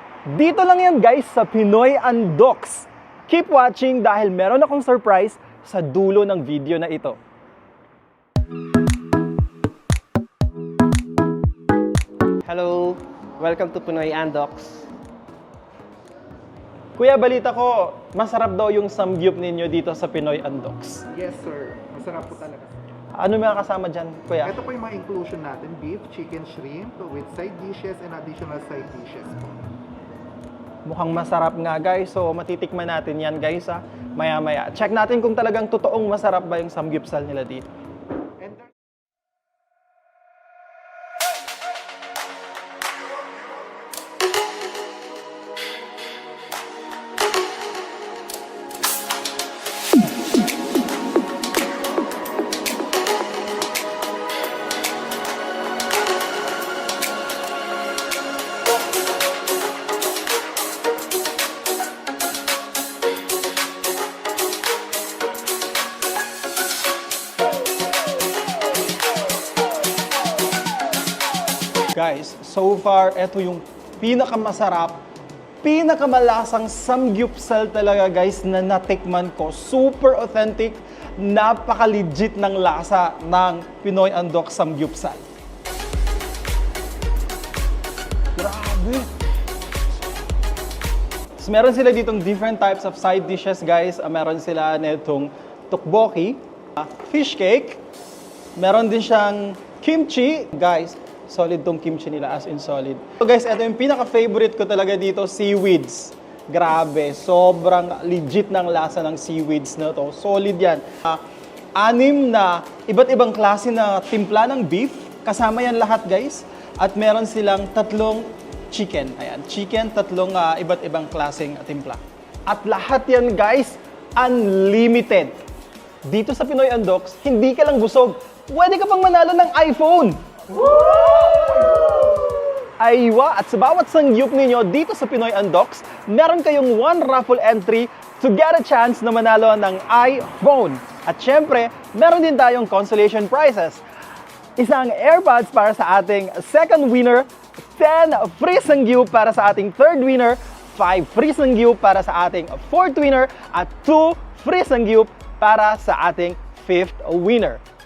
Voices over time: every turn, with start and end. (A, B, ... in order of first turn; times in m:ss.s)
0:00.3-0:07.2 A
0:12.4-0:14.8 B
0:17.0-0:21.1 A
0:21.1-0:22.7 C
0:23.2-0:24.5 A
0:24.4-0:29.6 C
0:30.8-0:37.6 A
1:11.9-1:15.0 A
1:15.6-1:25.2 A
1:28.4-1:29.1 A
1:31.4-1:37.8 A
1:38.6-1:51.2 A
1:51.8-2:05.4 A
2:06.0-2:12.1 A
2:12.6-2:23.8 A
2:24.6-2:37.6 A